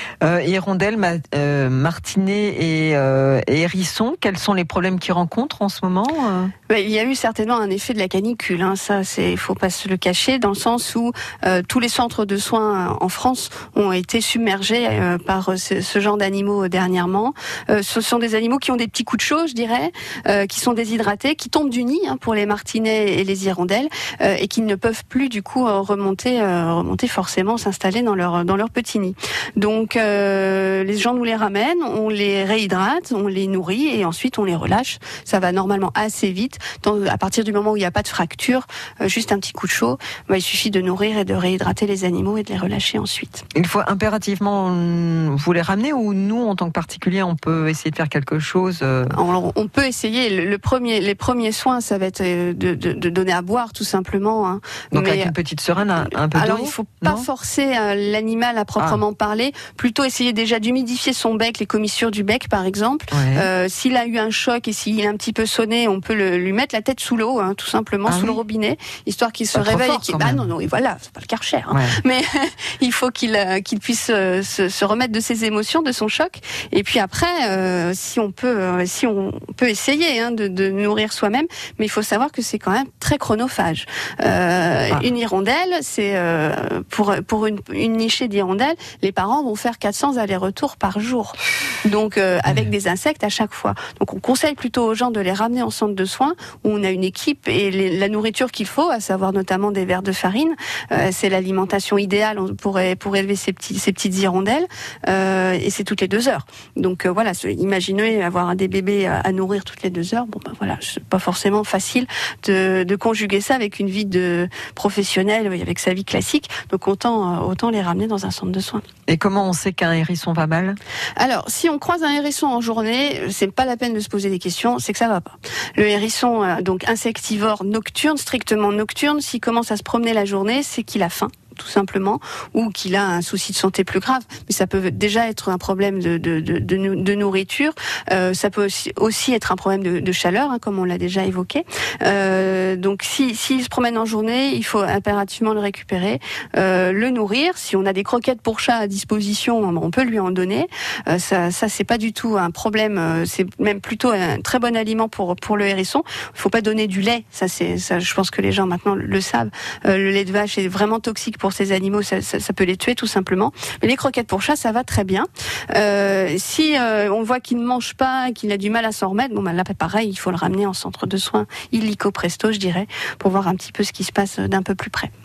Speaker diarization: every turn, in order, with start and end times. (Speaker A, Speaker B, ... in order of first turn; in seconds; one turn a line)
Speaker A: 0.2-6.5
Speaker B: 6.7-43.4
Speaker A: 43.5-49.2
Speaker B: 49.1-55.3
Speaker A: 54.9-57.3
Speaker B: 56.3-118.8
Speaker A: 63.1-63.5
Speaker A: 68.0-68.4
Speaker A: 69.5-70.5
Speaker A: 71.7-72.0
Speaker A: 119.1-120.8
Speaker B: 121.2-175.1